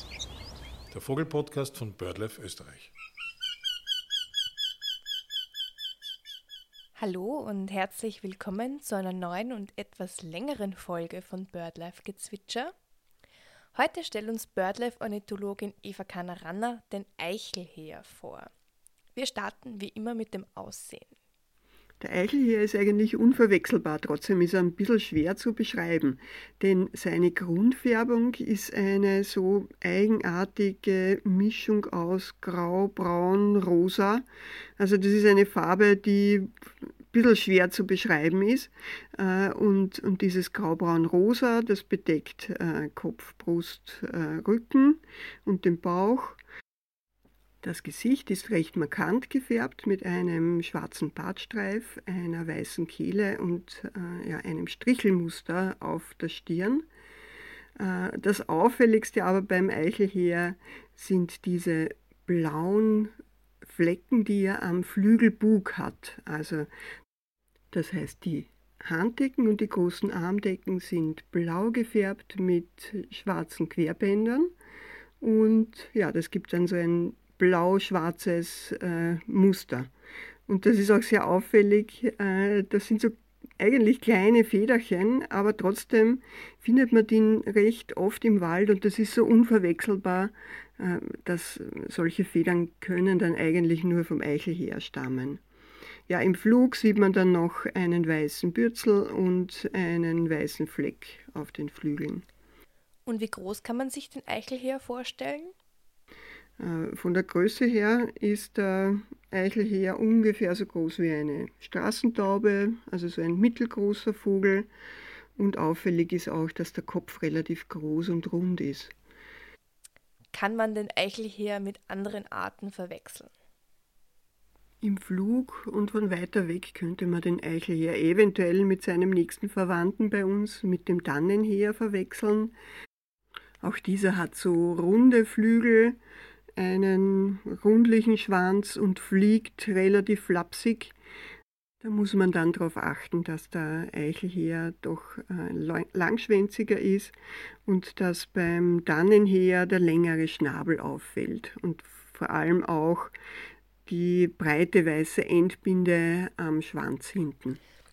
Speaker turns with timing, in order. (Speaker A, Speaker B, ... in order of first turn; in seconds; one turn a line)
Speaker A: 0.9-2.9
Speaker B: 7.0-12.7
Speaker B: 13.7-18.5
Speaker B: 19.1-21.1
Speaker C: 22.0-34.3
Speaker C: 34.8-46.4
Speaker C: 47.6-56.9
Speaker C: 57.8-66.7
Speaker C: 67.7-74.5
Speaker C: 75.2-79.9
Speaker C: 80.5-95.4
Speaker C: 96.1-102.2
Speaker B: 103.0-105.5
Speaker C: 106.6-114.7
Speaker C: 115.4-118.9
Speaker B: 120.3-123.3
Speaker C: 124.8-132.5
Speaker C: 133.6-136.0
Speaker C: 136.6-140.9
Speaker C: 141.8-147.2
Speaker C: 147.7-153.2
Speaker C: 153.9-157.6